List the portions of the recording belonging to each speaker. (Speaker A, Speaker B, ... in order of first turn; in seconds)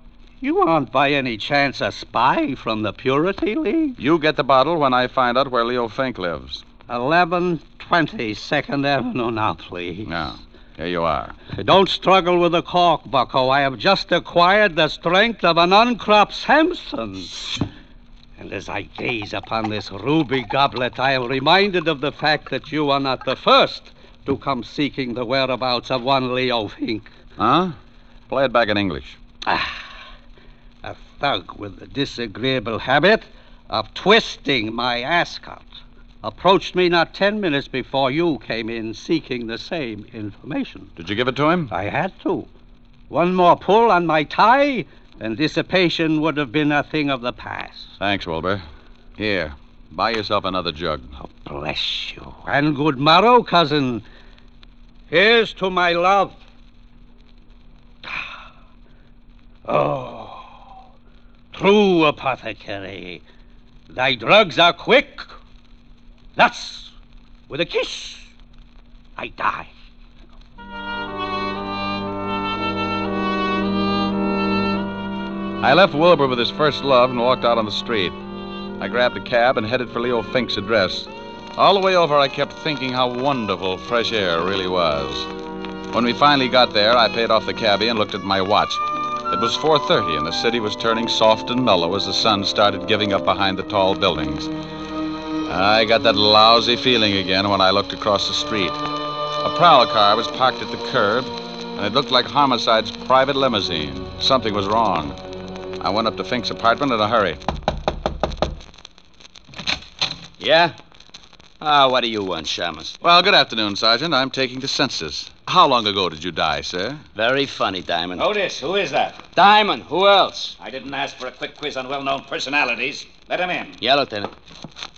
Speaker A: 0.4-4.0, 6.9-10.1, 11.6-17.4, 18.4-27.1, 29.5-29.8, 30.8-35.7, 36.2-40.9, 41.7-42.5, 43.1-47.9, 51.2-54.0, 55.1-56.4, 59.7-60.5, 61.5-63.2, 63.9-65.3, 66.4-66.9, 67.5-68.3, 69.2-69.7
Speaker B: 4.0-6.6, 10.1-11.4, 27.4-27.8, 28.3-29.2, 41.0-41.7, 48.0-48.6, 49.2-51.1, 75.6-78.2, 78.8-85.3, 85.9-94.5, 95.5-98.8, 99.4-105.2, 105.8-107.4, 113.0-117.0
Speaker C: 110.4-110.8, 111.6-113.0, 117.2-118.3, 119.3-120.5, 123.8-124.3
Speaker D: 118.2-119.2, 120.6-123.8